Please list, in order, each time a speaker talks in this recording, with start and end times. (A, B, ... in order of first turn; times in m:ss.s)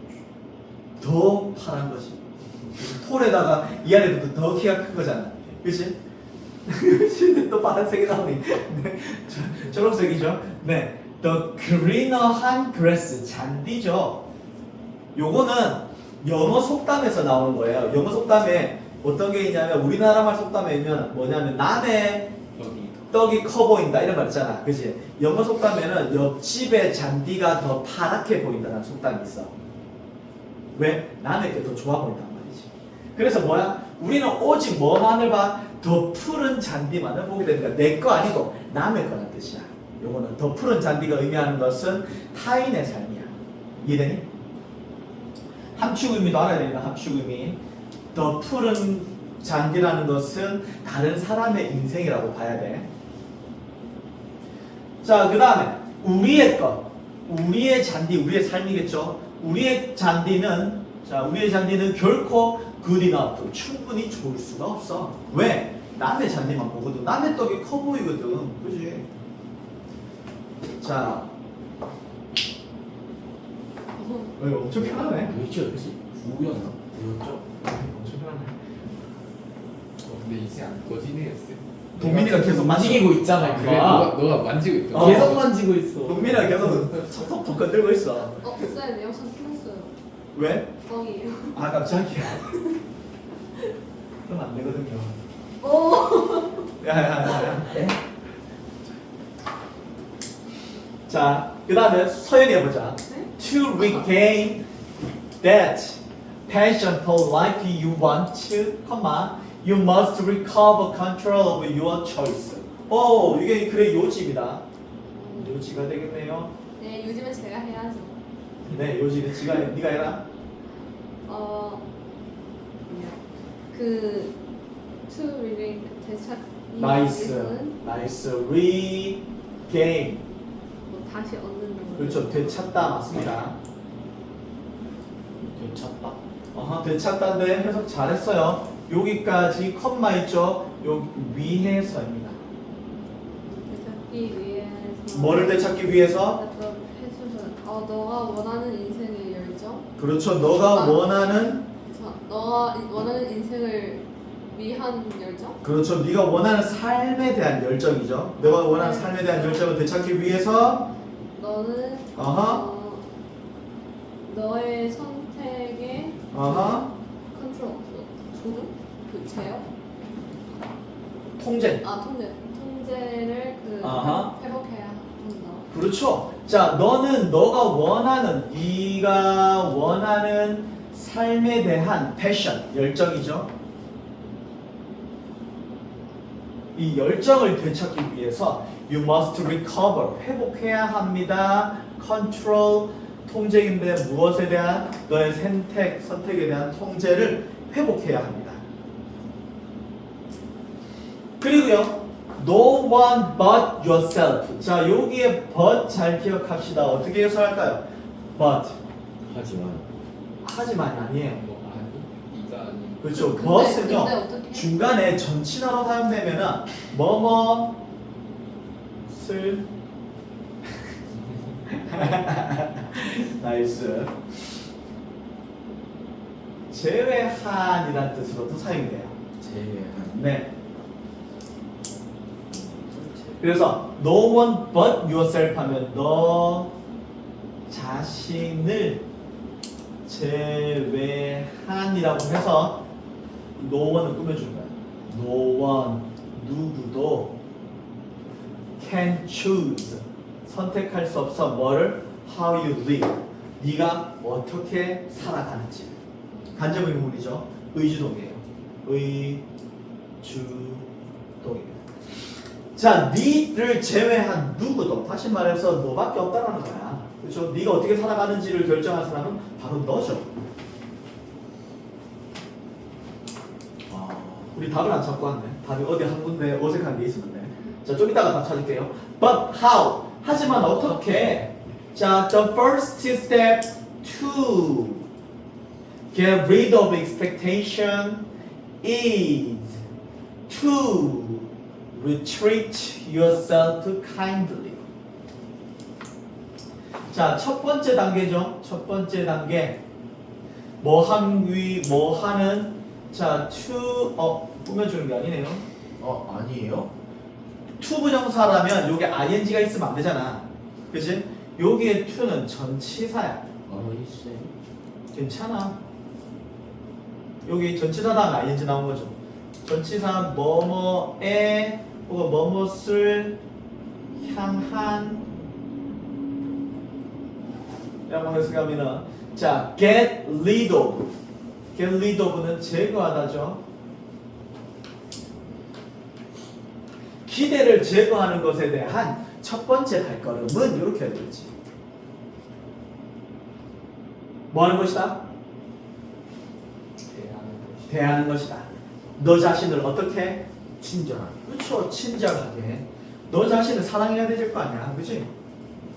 0:01.0-0:06.0 A
0:06.7-0:14.2 A
0:15.2-0:22.3 A
0:22.6-0:23.2 B
0:23.1-0:29.5 A
0:30.7-0:44.3 A
0:45.8-0:47.6 A
0:48.1-0:52.9 A
0:55.0-1:09.1 A
1:10.8-1:11.3 A
1:14.0-1:14.3 C
1:14.4-1:15.4 A
1:14.8-1:17.5 D
1:17.6-1:18.6 A
1:20.0-1:25.5 B
1:22.0-1:24.2 A
1:22.0-1:24.0 D
1:24.9-1:28.4 A
1:24.9-1:26.9 D
1:28.4-1:29.9 C
1:30.3-1:30.7 A
1:30.8-1:31.8 C
1:31.5-1:32.5 A
1:32.3-1:32.7 C
1:34.3-1:35.2 A
1:35.6-1:36.7 C
1:36.8-1:37.9 A
1:41.1-1:44.6 A
1:45.4-1:54.6 A
1:55.1-1:55.7 C
1:55.4-1:56.5 A
1:56.8-1:58.2 C
1:58.7-2:00.2 A
2:01.3-2:01.8 C
2:02.9-2:03.2 C
2:03.7-2:04.4 C
2:05.1-2:07.8 C
2:06.8-2:10.2 A
2:10.9-2:13.0 C
2:12.0-2:13.6 A
2:15.4-2:16.2 D
2:16.5-2:22.4 A
2:23.4-2:29.9 C
2:25.1-2:26.4 A
2:30.0-2:31.6 A
2:30.7-2:31.2 C
2:31.9-2:35.6 C
2:35.6-2:40.9 A
2:38.4-2:39.8 C
2:41.3-2:43.1 C
2:42.2-2:42.6 A
2:44.2-2:49.7 C
2:46.3-2:46.9 A
2:51.4-2:51.8 A
2:51.8-2:55.7 C
2:53.8-2:54.3 A
2:55.7-3:03.5 A
3:06.8-3:18.6 A
3:21.4-3:27.8 A
3:28.4-3:28.8 A
3:29.2-3:29.9 D
3:30.4-3:31.4 A
3:31.2-3:33.1 B
3:33.0-3:37.8 A
3:33.1-3:34.7 C
3:39.1-3:39.7 A
3:41.7-3:44.4 A
3:46.7-3:49.1 A
3:49.4-3:50.2 D
3:50.1-3:50.5 A
3:52.5-3:53.5 D
3:53.4-3:56.7 A
3:57.7-3:59.0 A
4:00.1-4:02.8 A
4:03.6-4:07.4 A
4:08.8-4:16.0 A
4:16.6-4:19.4 A
4:20.2-4:20.9 A
4:21.4-4:21.8 A
4:22.8-4:30.3 A
4:33.9-4:34.7 D
4:34.5-4:45.0 A
4:40.3-4:41.5 D
4:46.1-4:48.3 A
4:48.8-4:49.8 A
4:50.5-4:54.8 A
4:57.1-4:59.8 A
5:00.8-5:05.6 A
5:06.0-5:06.9 D
5:07.8-5:13.4 A
5:13.7-5:14.5 D
5:15.1-5:15.8 A
5:17.4-5:23.4 A
5:24.2-5:25.3 A
5:28.1-5:31.1 A
5:31.7-5:33.6 A
5:37.3-5:41.5 A
5:44.5-5:45.2 A
5:47.1-5:47.9 B
5:47.9-5:50.4 A
5:50.8-5:51.4 D
5:51.3-5:55.3 A